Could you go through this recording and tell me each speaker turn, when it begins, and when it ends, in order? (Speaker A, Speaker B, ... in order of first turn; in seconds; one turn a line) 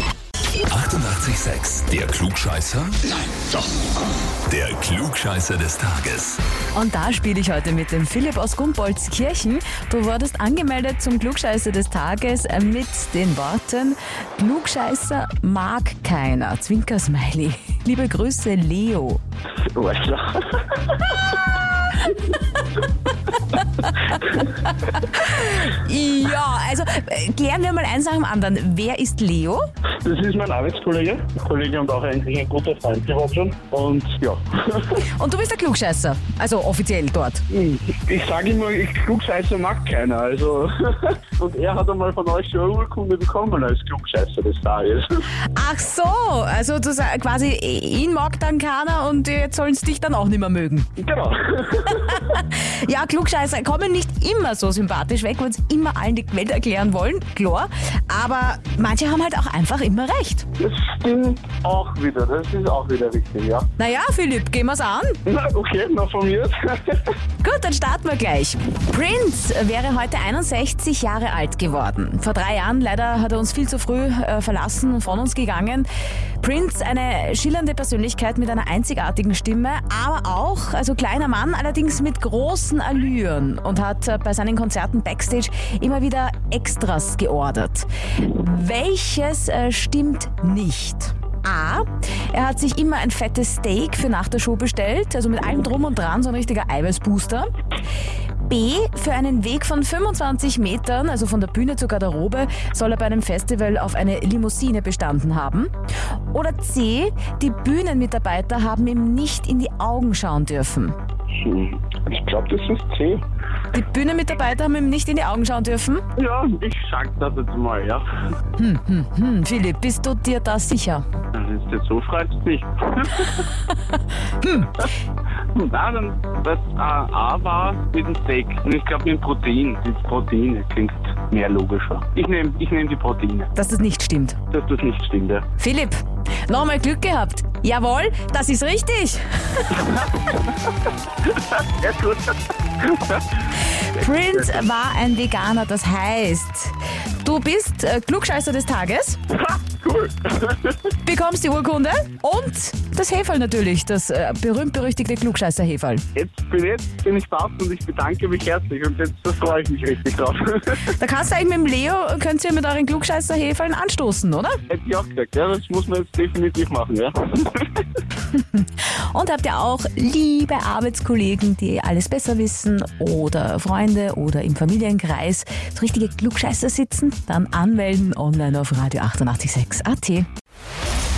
Speaker A: 0.6-3.2
Speaker A: 4.5-6.4
Speaker B: 6.7-19.2
Speaker C: 19.6-21.2
Speaker B: 23.5-29.6
Speaker C: 30.0-35.0
Speaker B: 35.0-37.4
Speaker C: 37.5-45.2
Speaker B: 45.5-50.9
Speaker C: 51.0-52.2
Speaker B: 51.9-60.5
Speaker C: 60.6-63.6
Speaker B: 63.8-65.2
Speaker C: 65.2-67.1
Speaker B: 67.4-75.9
Speaker B: 76.4-97.5
Speaker B: 98.5-105.7
Speaker B: 106.3-111.0
Speaker C: 111.4-113.2
Speaker B: 113.7-116.0
Speaker C: 116.2-118.0
Speaker B: 118.5-121.0
Speaker C: 121.3-123.4
Speaker B: 124.4-124.8
Speaker C: 125.5-133.5
Speaker B: 133.6-134.4
Speaker C: 134.5-135.4
Speaker B: 135.6-140.0
Speaker C: 141.2-143.2
Speaker B: 143.8-149.2
Speaker C: 149.3-150.8
Speaker B: 151.0-156.1
Speaker C: 156.1-160.9
Speaker B: 160.8-164.6
Speaker C: 164.7-167.8
Speaker B: 168.3-180.3